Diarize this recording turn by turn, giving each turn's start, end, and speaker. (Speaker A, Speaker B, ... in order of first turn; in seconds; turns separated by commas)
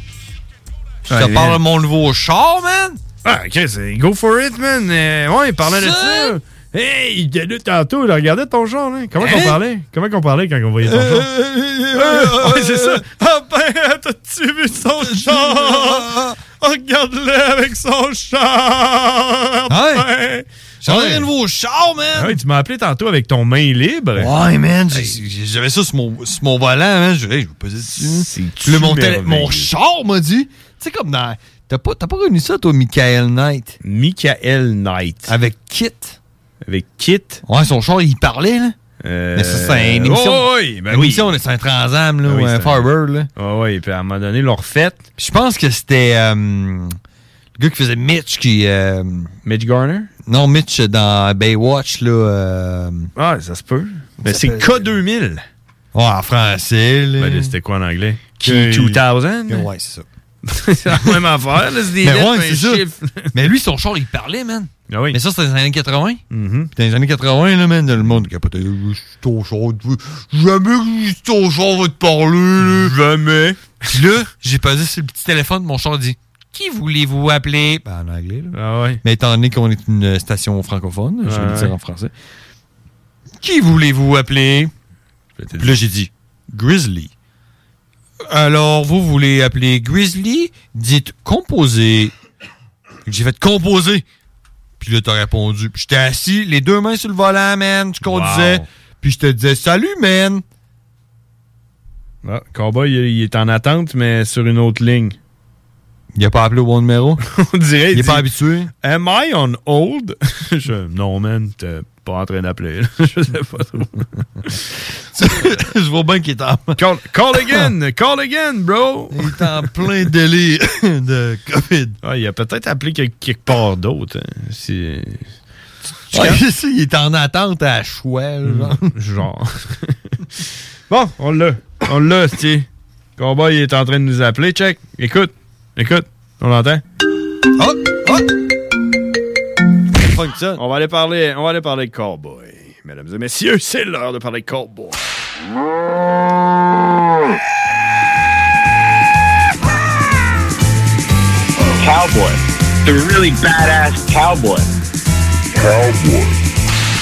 Speaker A: 1.1-3.0, Speaker B: 1.1-1.6, Speaker B: 3.2-11.3, Speaker A: 5.6-6.4, Speaker A: 9.2-9.6, Speaker A: 10.8-13.0, Speaker B: 11.9-21.3, Speaker A: 15.0-16.4, Speaker A: 19.7-20.1, Speaker A: 20.8-22.4, Speaker B: 22.1-24.4, Speaker A: 24.2-33.8, Speaker B: 24.9-25.2, Speaker B: 27.9-29.7, Speaker B: 33.8-35.4, Speaker A: 35.3-36.2, Speaker B: 36.7-37.4, Speaker A: 37.5-38.8, Speaker B: 39.0-41.4, Speaker A: 39.3-43.3, Speaker B: 42.2-45.0, Speaker A: 45.2-47.0, Speaker A: 47.6-49.3, Speaker B: 49.5-50.1, Speaker A: 50.3-53.1, Speaker B: 53.2-55.4, Speaker A: 54.2-54.9, Speaker A: 55.9-57.5, Speaker B: 57.2-59.7, Speaker A: 58.4-60.1, Speaker B: 60.5-63.3, Speaker A: 62.0-66.2, Speaker B: 64.9-65.2, Speaker B: 66.3-66.7, Speaker A: 66.8-72.9, Speaker B: 72.6-73.7, Speaker A: 73.9-82.1, Speaker B: 78.5-79.0, Speaker B: 81.2-81.7, Speaker A: 83.4-84.7, Speaker B: 85.4-85.8, Speaker A: 85.6-87.1, Speaker A: 88.3-92.1, Speaker A: 93.1-94.0, Speaker A: 94.8-100.4, Speaker B: 98.0-98.6, Speaker B: 102.2-105.2, Speaker A: 106.2-107.2, Speaker B: 107.3-108.3, Speaker A: 107.9-108.7, Speaker B: 108.8-114.5, Speaker A: 115.2-116.8, Speaker B: 116.8-119.4, Speaker A: 117.4-117.7, Speaker A: 119.1-122.0, Speaker B: 122.0-125.3, Speaker A: 126.1-128.9, Speaker B: 126.1-126.4, Speaker B: 128.5-136.8, Speaker A: 137.6-138.3, Speaker A: 139.9-140.6, Speaker B: 140.6-145.0, Speaker C: 151.8-154.7